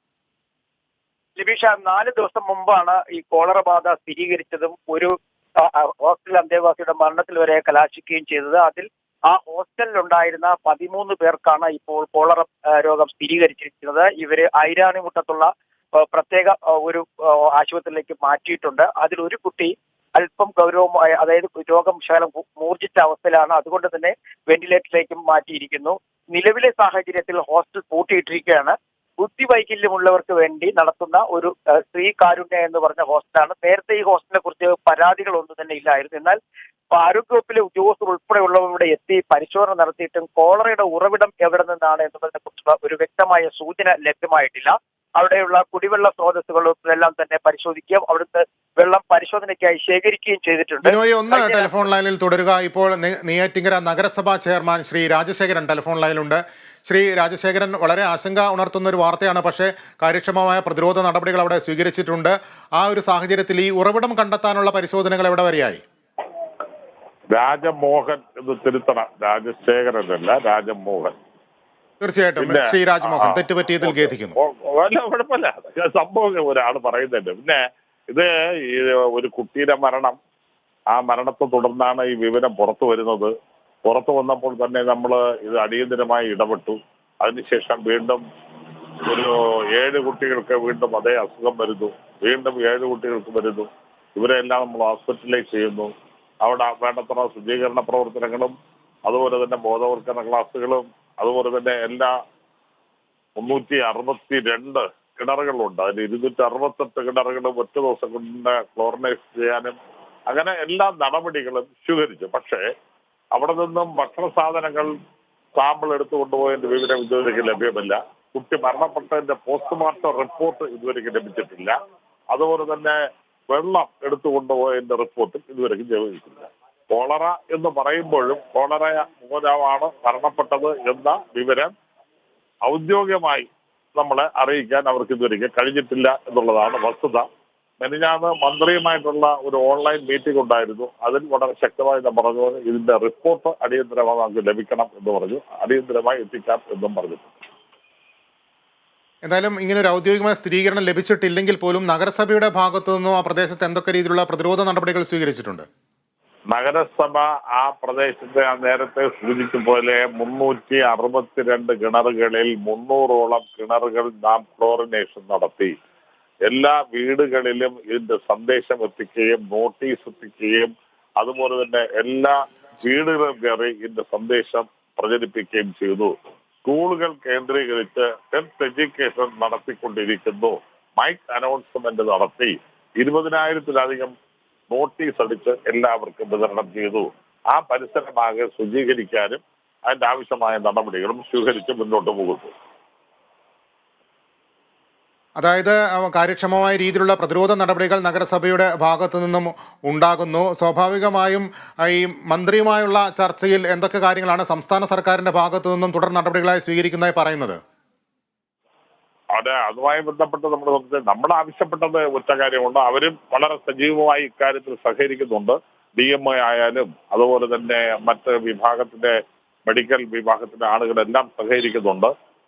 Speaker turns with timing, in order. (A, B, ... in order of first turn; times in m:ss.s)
0:01.4-0:36.4 A
0:36.9-0:51.8 A
0:50.8-1:05.8 B
1:07.3-1:11.2 C
1:12.0-1:14.4 B
1:12.4-1:20.2 C
1:20.9-1:23.3 C
1:23.8-1:28.2 C
1:29.0-1:38.5 C
1:39.1-1:42.2 C
1:43.4-1:49.8 C
1:50.3-1:52.6 C
1:53.3-1:54.9 C
1:55.6-2:01.7 C
2:02.3-2:03.0 C
2:03.5-2:11.7 C
2:12.6-2:17.3 C
2:17.8-2:27.3 C
2:29.2-2:35.7 B
2:36.5-2:45.7 C
2:46.5-2:56.1 C
2:56.6-3:04.1 C
3:04.7-3:12.5 C
3:15.4-3:27.6 B
3:29.4-3:39.1 C
3:39.7-3:42.1 C